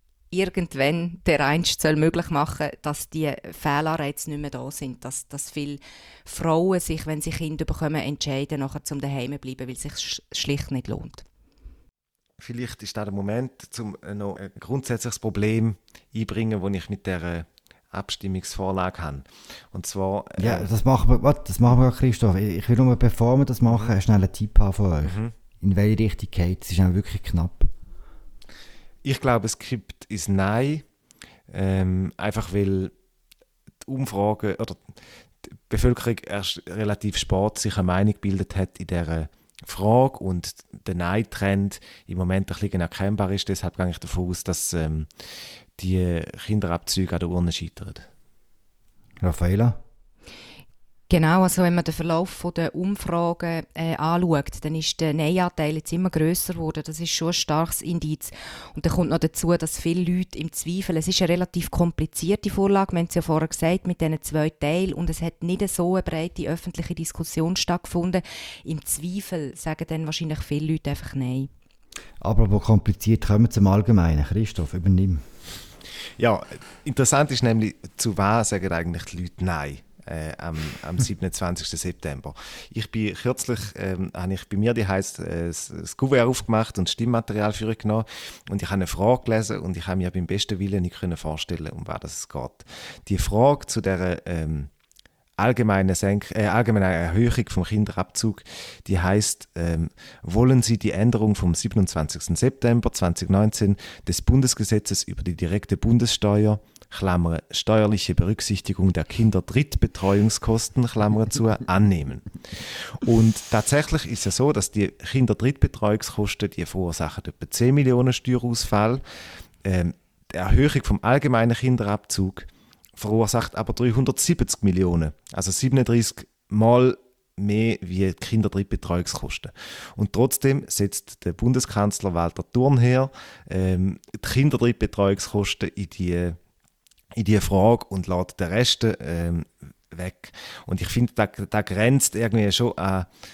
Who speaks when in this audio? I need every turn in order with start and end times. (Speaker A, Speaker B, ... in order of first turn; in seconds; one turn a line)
Speaker A: 0.3-11.2
Speaker B: 12.4-20.7
Speaker C: 20.4-27.7
Speaker B: 25.1-25.3
Speaker B: 29.0-30.8
Speaker B: 31.5-32.9
Speaker B: 33.8-34.8
Speaker B: 35.7-45.2
Speaker B: 45.8-48.1
Speaker C: 49.2-49.8
Speaker A: 51.1-71.5
Speaker C: 72.2-75.2
Speaker B: 76.2-94.7
Speaker B: 95.4-119.0
Speaker B: 119.6-136.4
Speaker B: 137.1-143.1